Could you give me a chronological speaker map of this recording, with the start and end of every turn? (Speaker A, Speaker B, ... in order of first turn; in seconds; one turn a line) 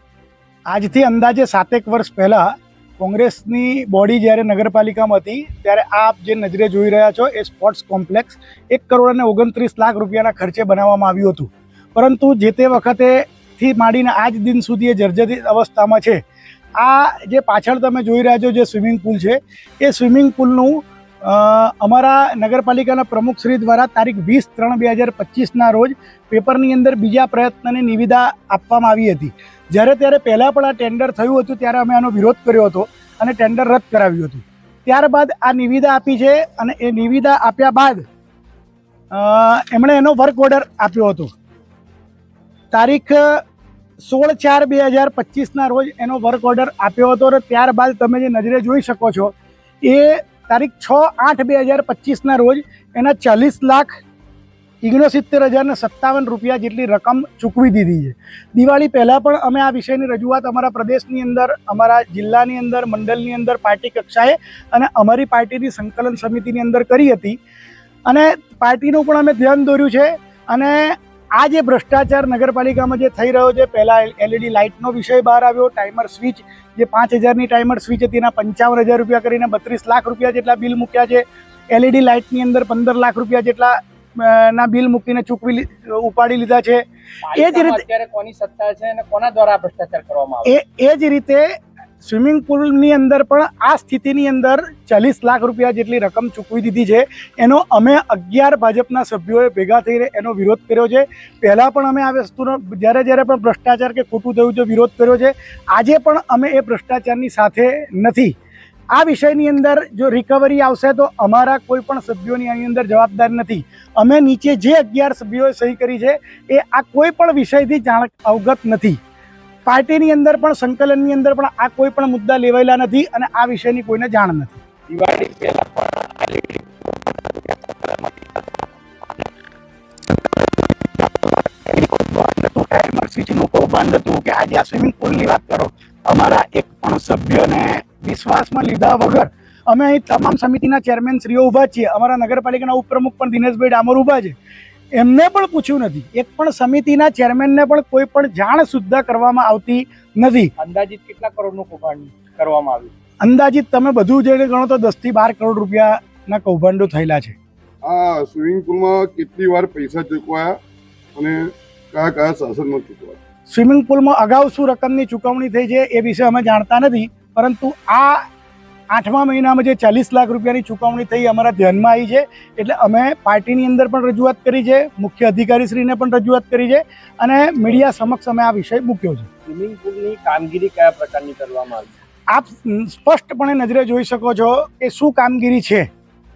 Speaker A: 0.8-2.5
Speaker A: 3.0-16.2
Speaker A: 16.8-38.0
Speaker A: 39.1-41.3
Speaker A: 42.7-43.4
Speaker A: 44.1-49.3
Speaker A: 49.8-54.0
Speaker A: 54.8-67.4
Speaker A: 68.1-86.8
Speaker B: 87.2-90.6
Speaker A: 87.4-87.8
Speaker A: 90.6-91.4
Speaker A: 92.1-108.3
Speaker A: 108.9-119.0
Speaker A: 119.7-124.5
Speaker B: 124.9-126.6
Speaker B: 127.8-128.2
Speaker A: 131.7-144.3
Speaker A: 145.0-150.4
Speaker B: 150.6-152.9
Speaker A: 153.4-155.8
Speaker A: 156.3-157.3
Speaker C: 157.8-160.6
Speaker C: 161.2-163.2
Speaker A: 163.7-168.2
Speaker A: 168.9-179.3
Speaker B: 179.5-181.9
Speaker A: 182.3-185.9